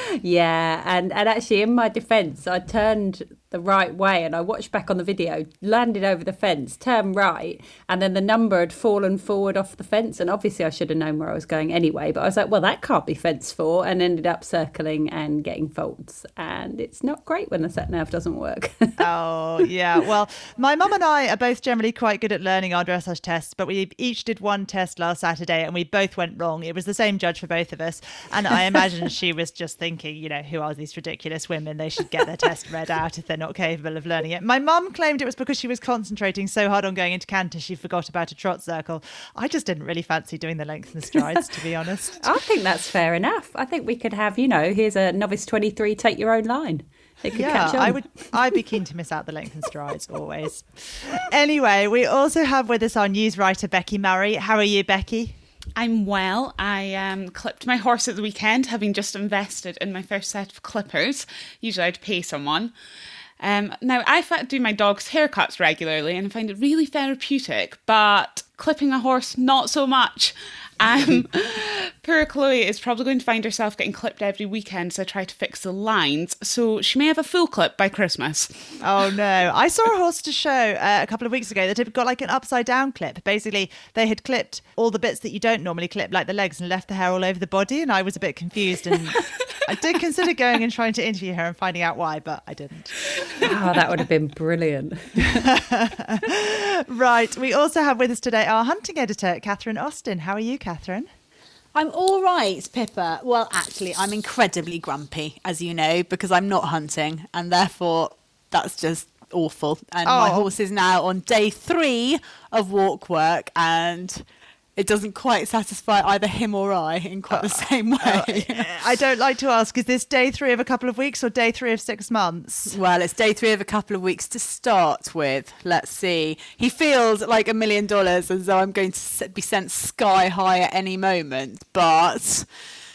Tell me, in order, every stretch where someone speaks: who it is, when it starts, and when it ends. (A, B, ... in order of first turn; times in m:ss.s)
0:00.2-0:19.0 A
0:19.0-0:42.2 B
0:42.2-0:48.6 A
0:47.3-0:55.4 B
0:55.8-1:02.7 C
1:03.4-1:18.8 C
1:18.8-1:33.5 B
1:33.4-1:35.5 A
1:35.4-1:41.1 B
1:41.7-1:54.2 D
1:50.1-1:50.5 B
1:54.8-1:58.7 D
1:57.3-2:02.8 B
2:02.7-2:12.5 D